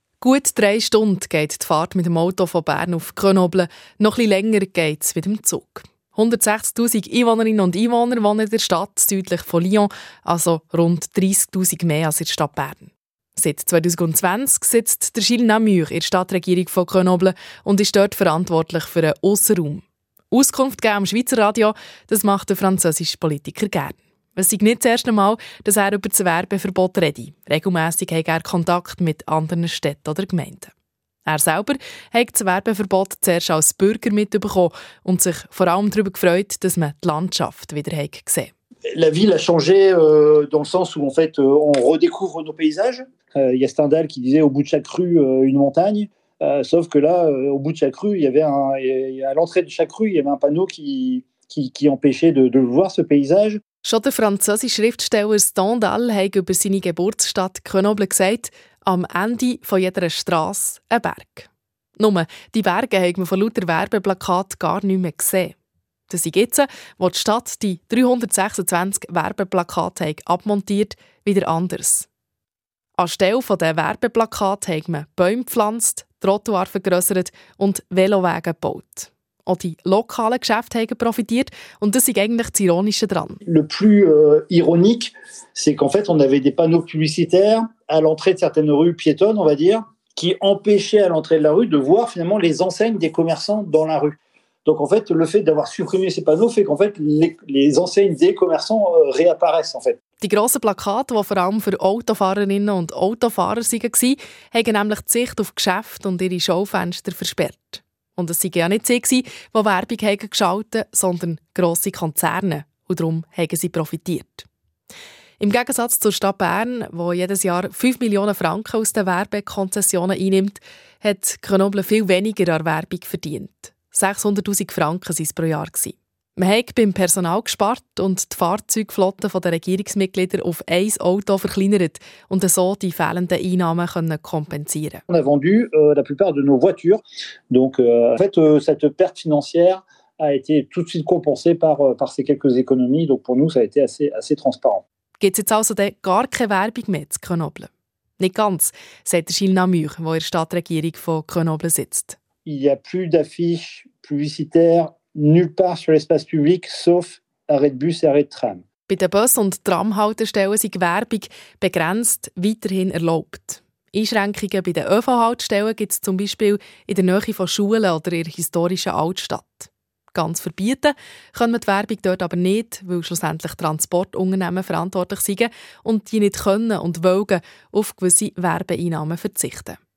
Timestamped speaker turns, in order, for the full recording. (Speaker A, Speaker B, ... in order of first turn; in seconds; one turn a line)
Speaker A: 0.2-30.7
Speaker A: 31.3-38.5
Speaker B: 38.9-53.6
Speaker A: 53.8-61.5
Speaker A: 62.0-65.5
Speaker A: 66.1-72.1
Speaker A: 73.0-83.4
Speaker B: 83.5-100.0
Speaker A: 100.2-114.5
Speaker A: 115.4-135.0
Speaker B: 135.1-144.8
Speaker A: 145.2-152.2
Speaker B: 152.5-158.6
Speaker A: 158.9-179.8